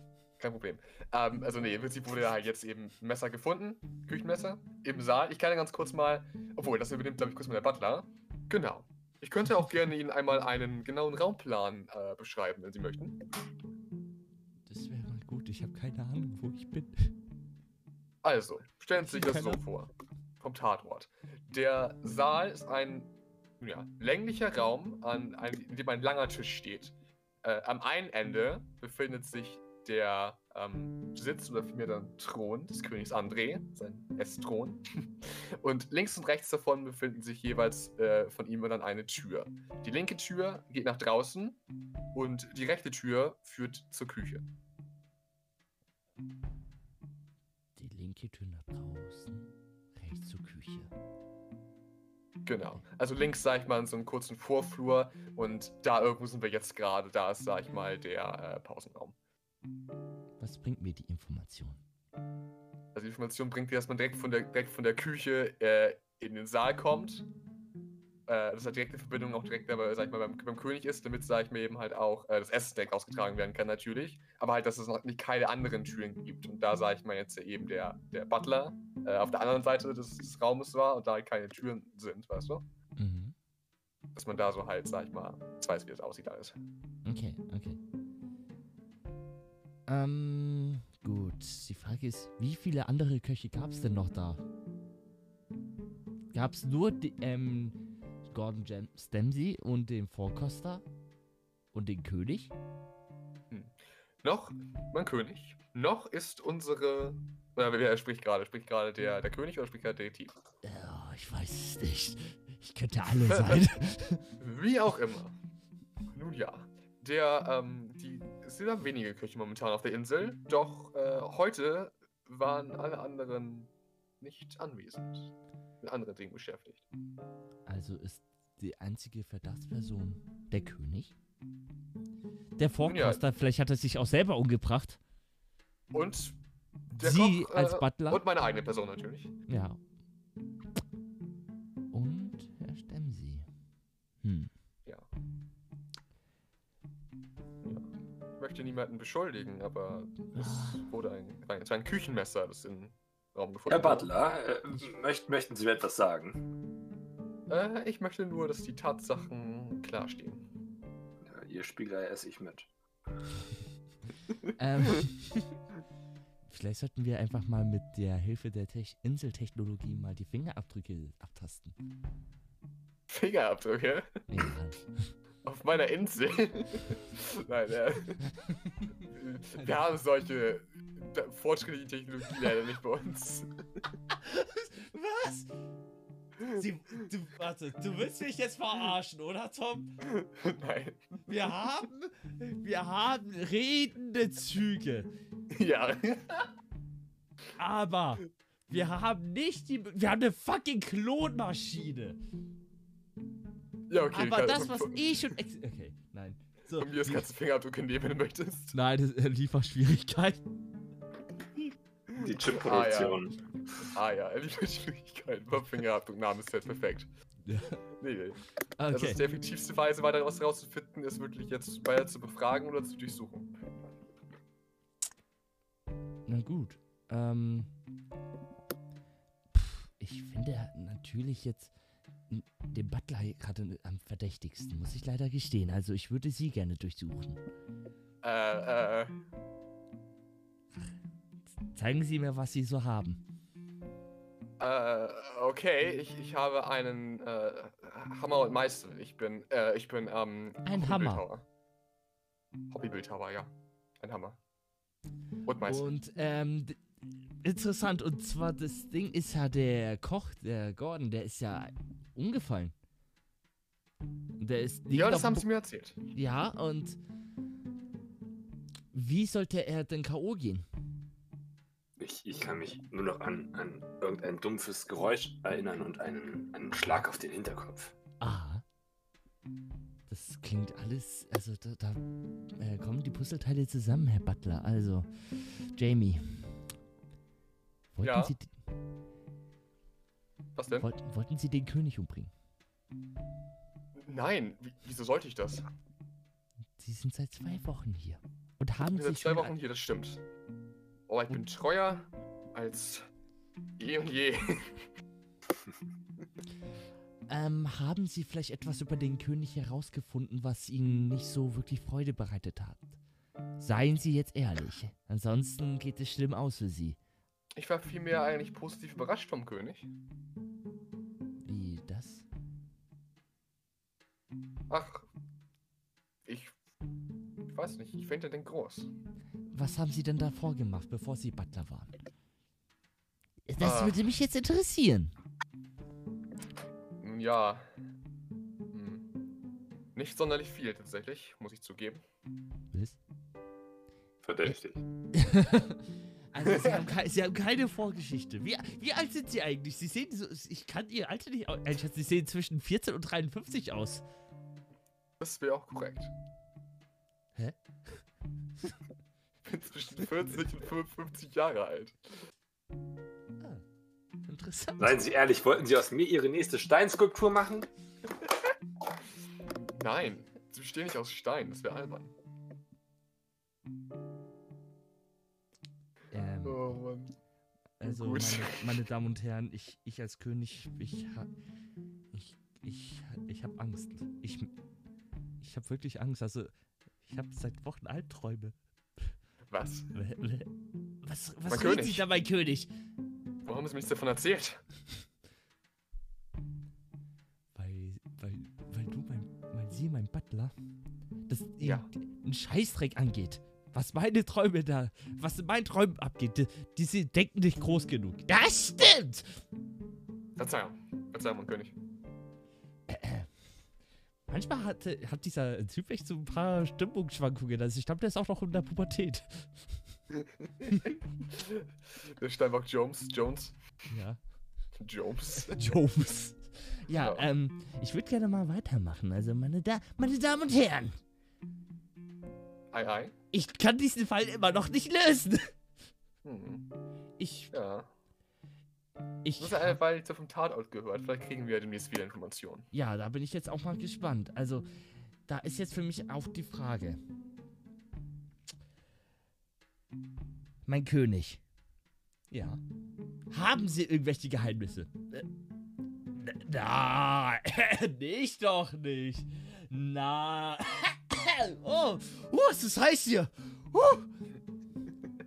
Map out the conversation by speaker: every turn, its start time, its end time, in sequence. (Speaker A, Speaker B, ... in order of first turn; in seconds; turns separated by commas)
Speaker A: 0.4-13.2, Speaker B: 14.7-17.1, Speaker A: 18.2-34.8, Speaker B: 19.0-19.6, Speaker A: 35.6-41.6, Speaker A: 42.1-44.5, Speaker B: 47.8-50.9, Speaker A: 52.5-59.1, Speaker B: 60.4-61.8, Speaker A: 62.9-67.3, Speaker A: 68.3-82.6, Speaker B: 83.0-83.3, Speaker A: 84.1-86.5, Speaker B: 87.0-87.8, Speaker B: 89.9-94.4, Speaker B: 96.3-100.8, Speaker B: 101.7-102.5, Speaker A: 103.5-110.3, Speaker B: 110.6-114.2, Speaker A: 113.3-113.7, Speaker A: 114.4-115.3, Speaker A: 116.1-126.8, Speaker B: 127.7-131.1, Speaker B: 132.6-135.0, Speaker A: 132.8-133.2, Speaker A: 135.9-136.4, Speaker A: 136.9-139.3, Speaker B: 137.0-138.2, Speaker B: 139.5-139.8, Speaker B: 141.9-143.4, Speaker B: 144.2-144.5, Speaker A: 148.4-154.1, Speaker B: 150.4-150.8, Speaker C: 153.7-156.4, Speaker A: 157.5-160.4, Speaker C: 161.2-162.7, Speaker B: 164.6-165.5, Speaker B: 166.5-171.7, Speaker A: 173.1-174.2, Speaker B: 174.3-175.1, Speaker A: 175.4-178.2, Speaker B: 178.4-178.9, Speaker A: 179.1-183.5, Speaker B: 184.1-185.5, Speaker B: 186.4-189.9, Speaker A: 190.1-191.1, Speaker B: 191.3-195.1, Speaker A: 195.5-196.5, Speaker B: 197.6-202.2, Speaker A: 203.9-205.3, Speaker B: 204.1-207.2, Speaker A: 206.8-208.7, Speaker B: 208.7-210.4, Speaker C: 212.2-213.3, Speaker A: 212.5-213.3, Speaker A: 213.8-217.1, Speaker B: 217.4-217.8, Speaker A: 218.0-223.5, Speaker B: 218.8-219.2, Speaker B: 226.3-227.7, Speaker B: 229.5-231.7, Speaker B: 232.3-237.4, Speaker A: 238.2-239.1, Speaker B: 241.7-243.2, Speaker A: 244.6-251.4, Speaker B: 250.6-251.2, Speaker A: 252.7-254.4, Speaker A: 255.4-255.9, Speaker B: 255.6-256.8, Speaker B: 257.4-262.7, Speaker B: 264.4-265.4, Speaker A: 264.9-266.0, Speaker B: 266.1-267.0, Speaker B: 268.9-270.6, Speaker C: 272.0-277.9, Speaker B: 278.2-278.6, Speaker B: 280.1-282.0, Speaker B: 282.6-286.5, Speaker B: 287.9-288.5, Speaker A: 288.0-288.3, Speaker A: 290.6-290.9, Speaker B: 290.8-292.3, Speaker A: 293.9-295.7, Speaker B: 296.8-299.5, Speaker A: 298.9-300.2, Speaker A: 301.1-303.1, Speaker A: 303.8-304.9, Speaker B: 307.3-312.9, Speaker B: 313.6-317.0, Speaker A: 317.6-319.9, Speaker B: 321.4-322.2, Speaker A: 324.7-325.1, Speaker A: 326.2-326.5, Speaker A: 327.5-328.9, Speaker B: 329.5-331.9, Speaker B: 333.5-335.1, Speaker A: 333.6-334.0, Speaker A: 337.0-337.7, Speaker A: 338.7-339.0, Speaker A: 339.9-342.0, Speaker B: 342.7-343.0, Speaker C: 344.2-344.8, Speaker B: 345.1-354.0, Speaker A: 346.4-346.8, Speaker A: 355.2-356.1, Speaker A: 359.5-362.0, Speaker B: 364.2-364.9, Speaker C: 364.8-367.7, Speaker A: 369.6-372.1, Speaker B: 376.1-376.7, Speaker A: 376.4-377.1, Speaker B: 377.8-381.3, Speaker A: 377.8-378.7, Speaker B: 382.1-384.5, Speaker B: 385.4-386.5, Speaker B: 387.1-389.1, Speaker A: 389.5-389.9, Speaker B: 389.9-390.5, Speaker B: 391.0-392.7, Speaker A: 391.5-392.0, Speaker A: 393.4-394.6, Speaker B: 397.5-400.5, Speaker B: 401.3-409.4, Speaker A: 410.4-411.7, Speaker B: 412.9-413.3, Speaker B: 414.3-419.6, Speaker A: 421.4-423.5, Speaker B: 423.9-424.2, Speaker A: 424.8-425.6, Speaker B: 425.4-430.9, Speaker A: 427.0-427.2, Speaker A: 432.7-433.1, Speaker B: 433.3-435.5, Speaker A: 436.2-436.7, Speaker B: 437.2-437.5, Speaker A: 437.5-437.9, Speaker B: 439.2-439.8, Speaker A: 439.4-442.7, Speaker B: 442.7-444.7, Speaker B: 445.3-447.0, Speaker B: 450.7-451.4, Speaker B: 452.3-452.6, Speaker B: 453.3-455.2, Speaker B: 456.1-464.1